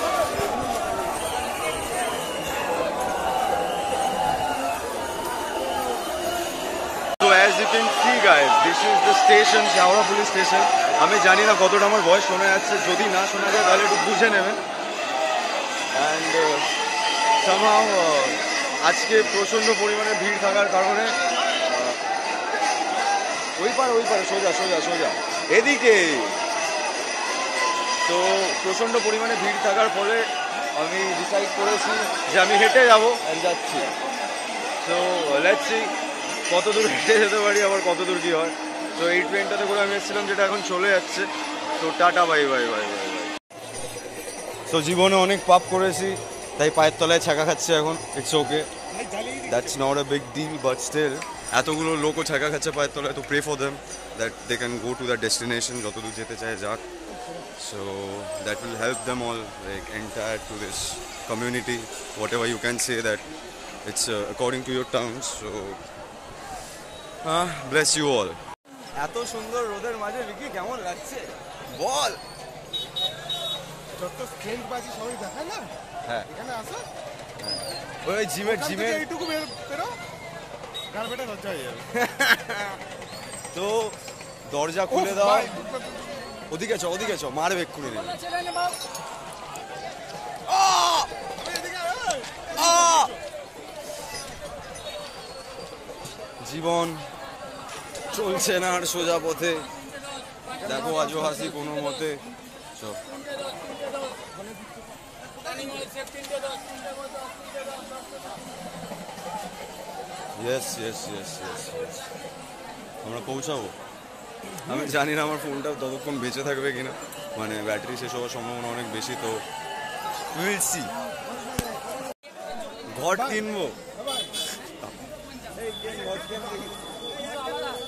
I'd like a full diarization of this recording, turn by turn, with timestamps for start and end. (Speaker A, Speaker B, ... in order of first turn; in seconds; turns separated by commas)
Speaker A: 7.2-14.6, Speaker A: 15.9-16.7, Speaker A: 17.4-22.0, Speaker A: 23.6-26.4, Speaker A: 28.0-33.9, Speaker A: 34.8-35.9, Speaker A: 36.5-43.3, Speaker A: 44.7-48.7, Speaker B: 48.9-49.8, Speaker A: 49.5-56.8, Speaker A: 57.6-63.3, Speaker A: 63.8-65.8, Speaker A: 67.2-68.4, Speaker A: 69.0-72.2, Speaker B: 73.9-75.7, Speaker B: 76.3-76.9, Speaker A: 77.4-79.1, Speaker B: 78.4-80.0, Speaker B: 80.9-81.9, Speaker A: 81.9-82.8, Speaker A: 83.5-85.5, Speaker B: 84.9-86.3, Speaker A: 86.5-88.2, Speaker A: 90.5-91.1, Speaker B: 91.2-92.5, Speaker A: 92.5-93.1, Speaker A: 96.4-97.1, Speaker A: 98.1-99.7, Speaker A: 100.6-102.2, Speaker B: 105.6-105.9, Speaker A: 110.3-112.0, Speaker A: 113.0-113.8, Speaker A: 114.6-119.4, Speaker A: 120.3-121.0, Speaker A: 122.9-123.8